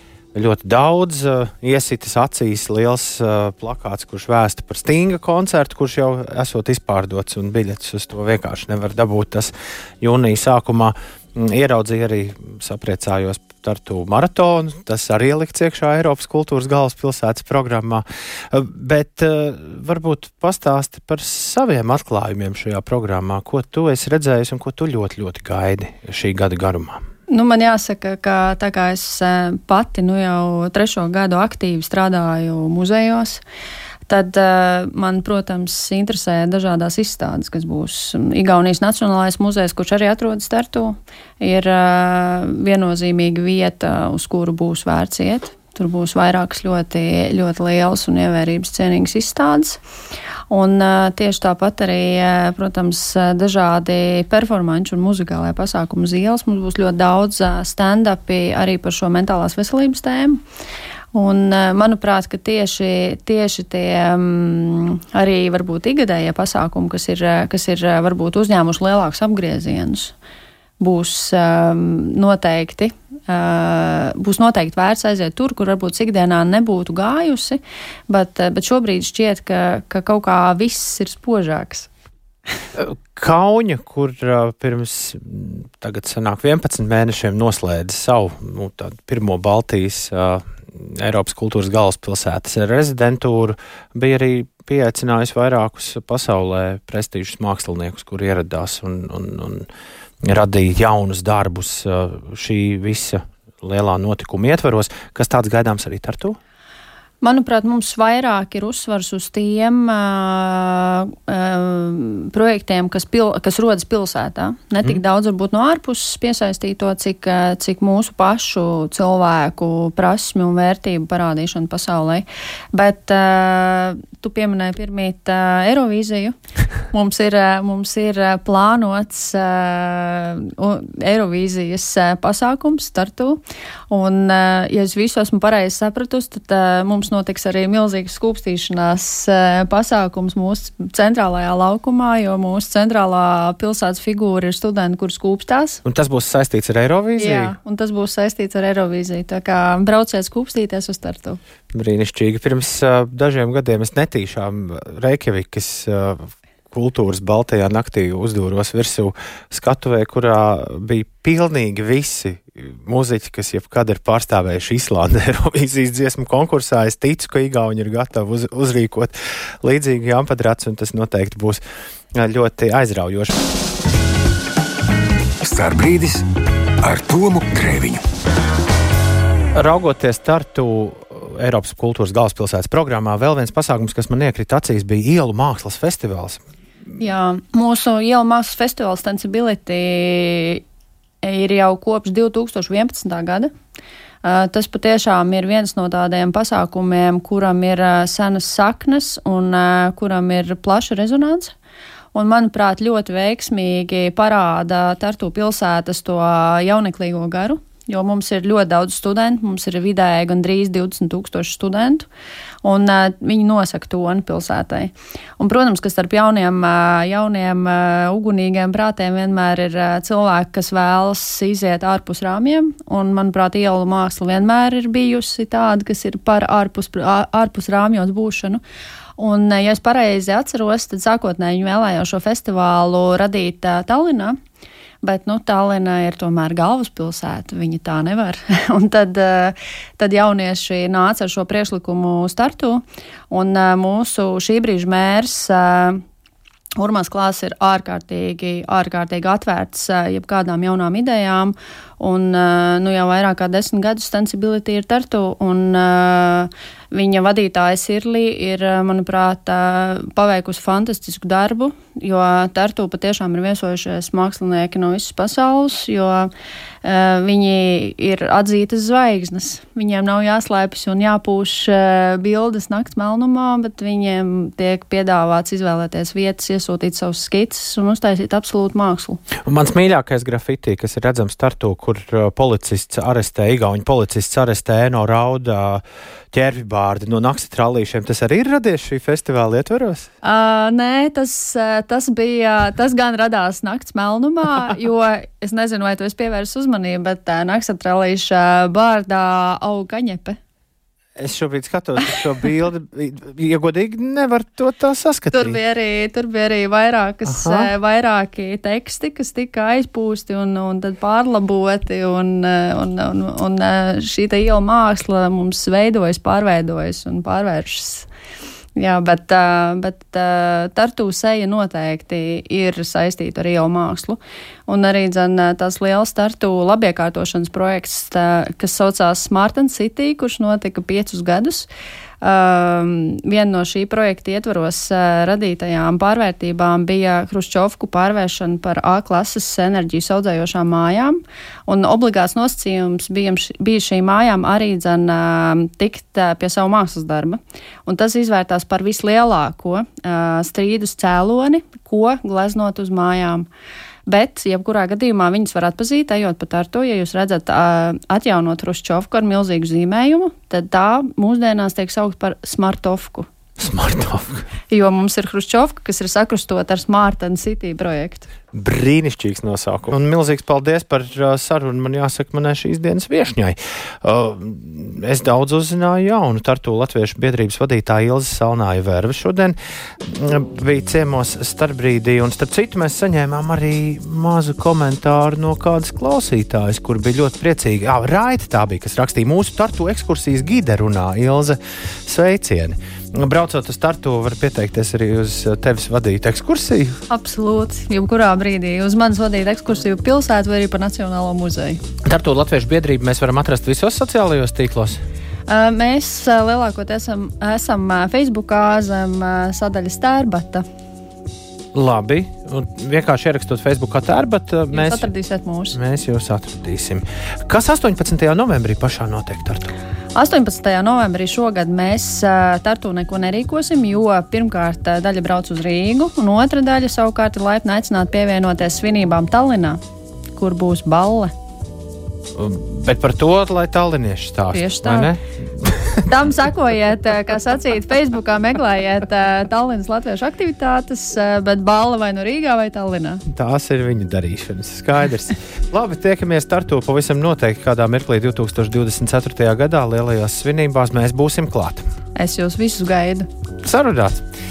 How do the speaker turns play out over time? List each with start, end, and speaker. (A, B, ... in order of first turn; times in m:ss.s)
0:00.3-0:27.0 A
0:27.3-0:33.4 B
0:34.1-0:49.8 B
0:50.5-1:00.4 B
1:01.1-1:10.1 B
1:10.8-1:21.9 B
1:22.8-1:39.7 A
1:40.2-1:46.4 A
1:47.2-2:06.4 B
2:06.9-2:25.8 B
2:25.8-2:27.6 A
2:27.2-2:31.4 B
2:31.7-2:51.6 A
2:52.1-2:53.4 A
2:55.4-2:56.3 C
2:56.8-2:58.0 C
2:59.6-3:06.4 A
3:07.0-3:10.6 B
3:11.2-3:13.5 B
3:14.2-3:21.5 B
3:22.1-3:32.1 B
3:32.6-3:48.6 B
3:49.2-3:54.4 B
3:55.0-4:06.0 B
4:06.8-4:26.3 B
4:26.8-4:39.2 B
4:39.4-4:50.1 A
4:50.2-5:00.4 B
5:01.2-5:05.6 A
5:05.3-5:18.1 B
5:07.3-5:07.7 A
5:18.8-5:31.7 B
5:32.2-5:53.5 B
5:54.1-6:03.3 B
6:03.6-6:04.5 A
6:04.7-6:08.3 B
6:08.5-6:37.0 A
6:37.1-6:41.8 B
6:42.0-6:45.0 A
6:45.5-6:50.6 B
6:51.7-6:55.1 A
6:54.7-6:55.8 B
6:55.7-6:59.8 A
7:00.2-7:09.8 B
7:10.4-7:11.3 B
7:12.4-7:16.1 A
7:14.5-7:15.1 B
7:16.1-7:23.2 B
7:23.3-7:31.9 A
7:32.2-7:33.3 B
7:33.6-7:34.2 A